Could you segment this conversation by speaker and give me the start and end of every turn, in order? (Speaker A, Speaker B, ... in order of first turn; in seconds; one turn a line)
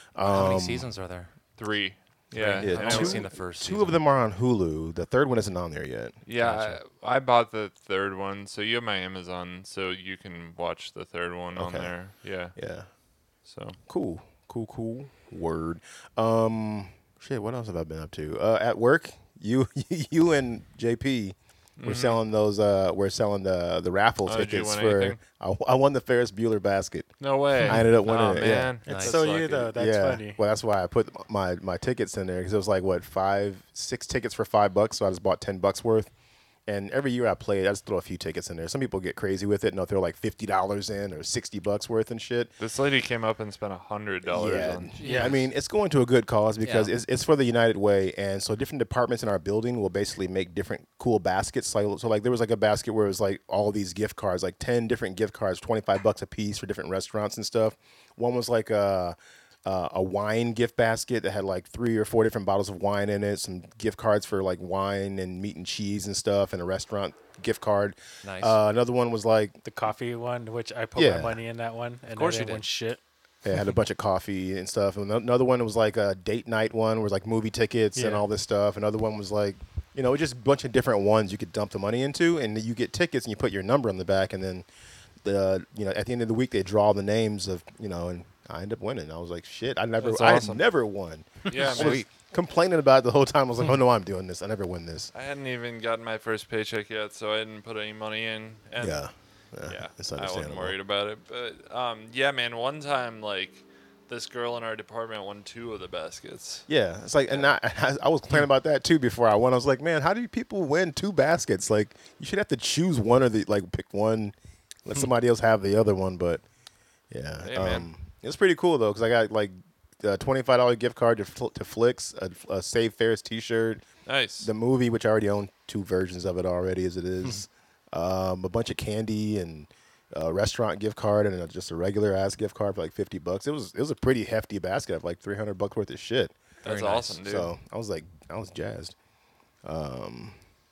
Speaker A: 0.1-0.9
Speaker B: 0.2-1.3
Speaker C: 1.6-3.2
Speaker B: 2.4-4.0
Speaker A: 2.5-6.2
Speaker C: 6.2-12.6
Speaker B: 6.4-6.8
Speaker A: 11.6-12.0
Speaker A: 12.5-12.9
Speaker C: 13.4-13.8
Speaker A: 13.9-27.1
Speaker C: 21.8-22.2
Speaker C: 24.3-25.2
Speaker C: 27.2-29.7
Speaker A: 27.7-28.8
Speaker B: 28.9-29.2
Speaker D: 28.9-30.4
Speaker A: 29.7-36.1
Speaker A: 36.7-42.5
Speaker C: 42.6-45.3
Speaker A: 44.3-69.6
Speaker B: 44.7-45.5
Speaker D: 45.0-45.4
Speaker B: 46.6-46.9
Speaker B: 68.2-68.6
Speaker D: 69.6-73.0
Speaker A: 71.0-71.4
Speaker B: 72.0-72.7
Speaker A: 73.4-84.7
Speaker D: 78.0-78.2
Speaker A: 85.2-95.1
Speaker C: 90.0-90.7
Speaker C: 91.5-92.0
Speaker B: 91.7-92.1
Speaker C: 95.1-106.7
Speaker A: 98.8-100.8
Speaker A: 106.7-116.4
Speaker A: 117.1-123.8
Speaker C: 117.4-117.9
Speaker C: 124.1-124.5
Speaker A: 124.4-136.4
Speaker C: 136.6-137.5
Speaker B: 136.6-137.2
Speaker A: 137.2-138.9
Speaker A: 139.6-140.4